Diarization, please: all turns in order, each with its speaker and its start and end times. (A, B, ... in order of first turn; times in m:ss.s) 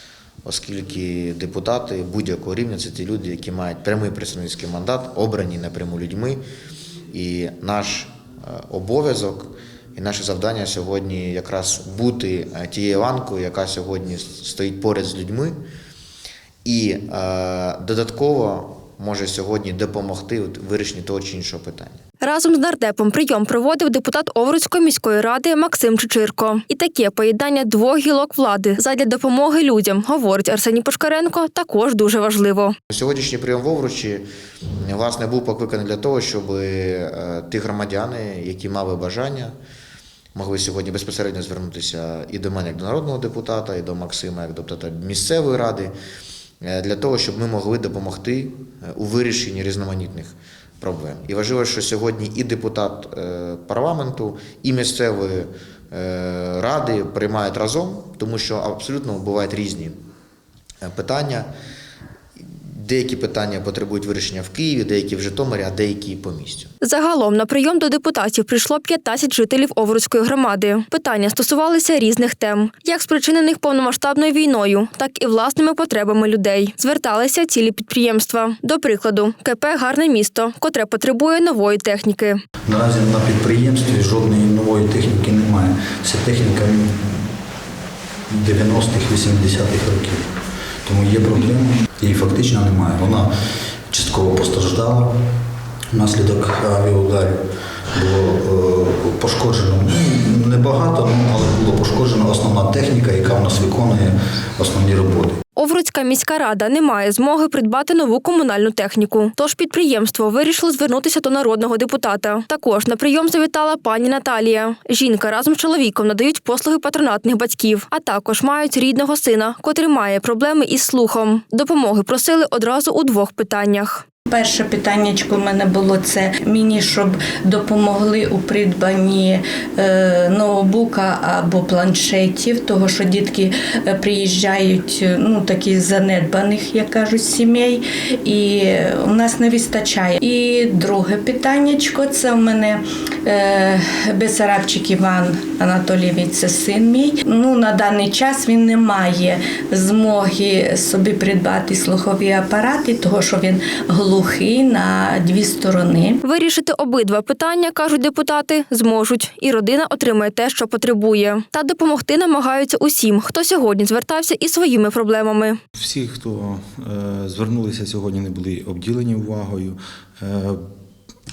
0:00.4-0:06.4 A
0:07.1-0:15.6 A
0:16.6-0:22.0 A
0:22.2-0:32.8 B
0:32.9-0:34.2 A
0:34.8-0:39.5 A
0:40.4-0:45.9 A
0:46.6-1:00.0 A
1:00.8-1:01.5 A
1:02.7-1:06.7 A
1:06.8-1:22.4 B
1:22.7-1:27.3 C
1:28.3-1:30.2 C
1:30.8-1:33.3 C
1:33.9-1:35.2 C
1:35.9-1:37.4 C
1:37.9-1:45.4 C
1:45.6-2:04.0 B
2:04.3-2:36.2 D
2:36.2-2:45.6 B
2:45.8-2:50.6 E